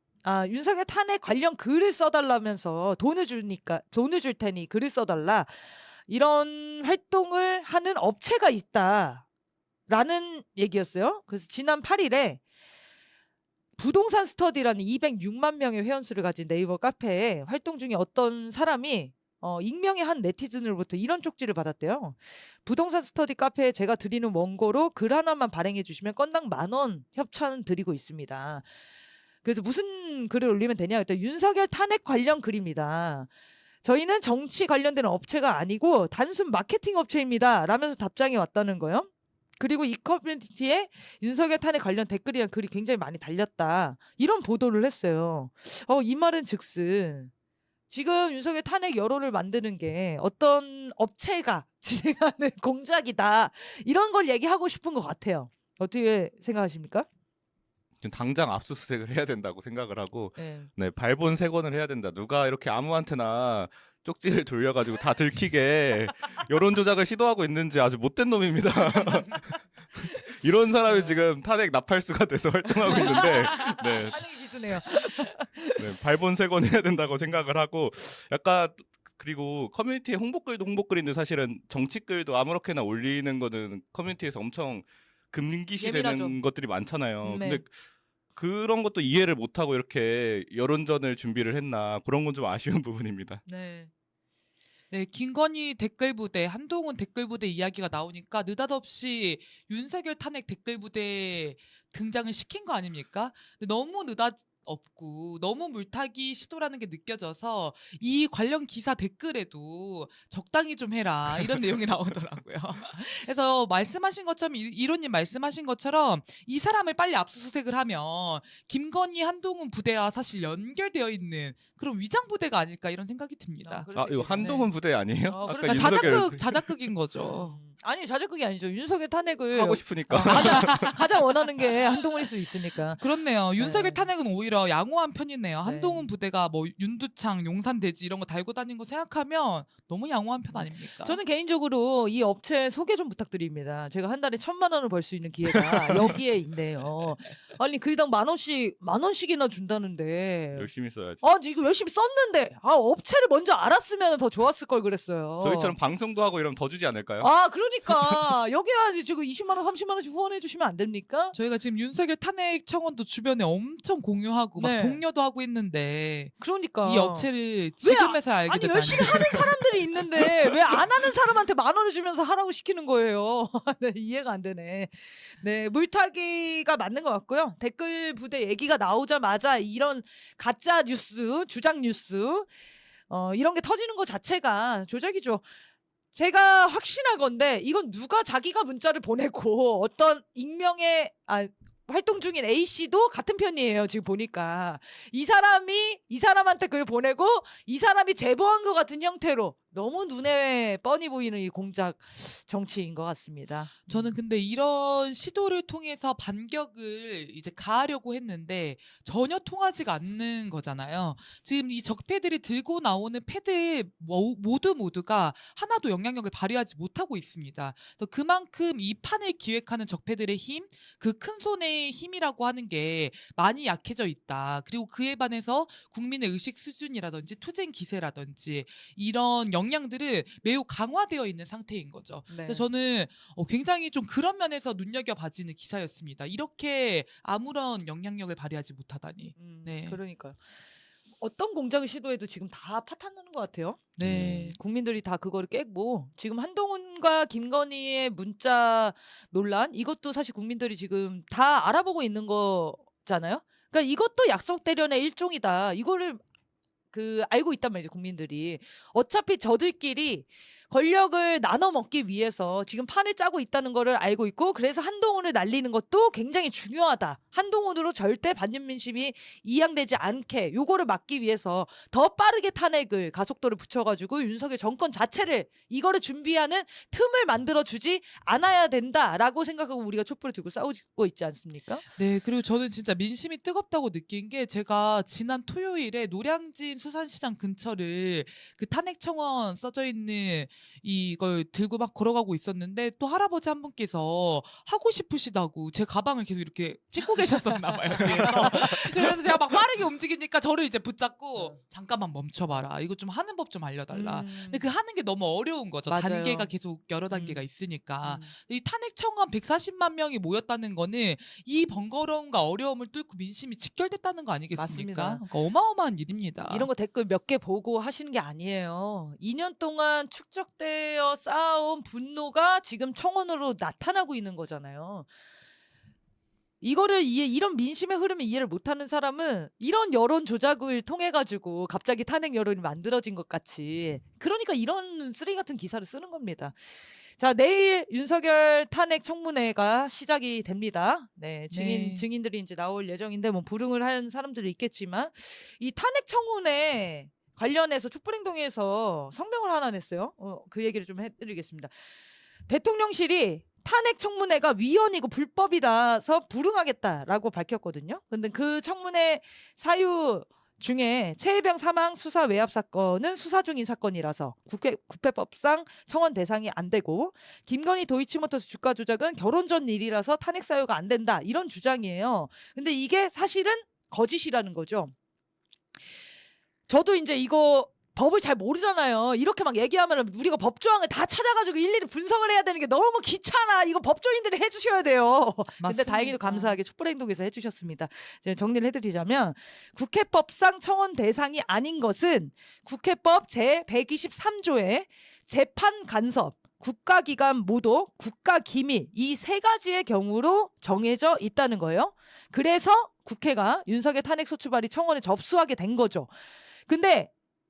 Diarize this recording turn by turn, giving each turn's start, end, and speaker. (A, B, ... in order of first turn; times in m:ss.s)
0:00.2-0:09.2 A
0:09.9-0:12.4 A
0:13.8-0:28.7 A
0:29.4-0:33.3 A
0:33.8-0:47.3 A
0:47.9-0:57.1 A
0:58.0-1:14.2 B
1:00.4-1:00.7 A
1:10.0-1:11.2 A
1:12.8-1:15.9 A
1:15.8-1:27.7 B
1:25.8-1:26.4 A
1:27.2-1:27.6 A
1:28.4-1:33.4 B
1:33.5-1:33.9 A
1:34.9-2:04.6 C
2:03.6-2:04.7 A
2:03.9-2:06.7 B
2:05.3-2:06.4 A
2:05.6-2:07.6 C
2:07.2-2:13.0 A
2:09.5-2:11.0 B
2:10.2-2:10.8 C
2:13.0-2:21.2 C
2:13.6-2:14.1 A
2:15.6-2:16.1 A
2:20.5-2:35.8 A
2:25.8-2:26.2 B
2:30.5-2:31.2 B
2:35.4-2:37.4 B
2:37.2-2:41.4 A
2:41.3-2:49.5 C
2:44.6-2:45.0 A
2:46.4-3:02.5 A
3:03.1-3:05.4 A
3:06.1-3:24.1 A
3:23.9-4:00.0 C
3:52.3-3:52.7 A
3:59.4-4:00.4 A
4:01.2-4:16.2 A
4:04.0-4:04.6 C
4:16.9-4:41.9 A
4:42.0-5:16.7 C
4:58.0-4:59.1 A
5:03.9-5:04.7 A
5:05.9-5:06.5 A
5:07.1-5:07.5 A
5:08.0-5:08.3 A
5:14.5-5:15.2 A
5:16.5-5:25.1 A
5:26.6-5:36.6 A
5:37.2-5:51.7 A
5:41.5-5:42.1 C
5:52.5-6:14.9 A
6:16.7-6:46.1 A
6:25.6-6:26.6 C
6:46.7-6:47.1 A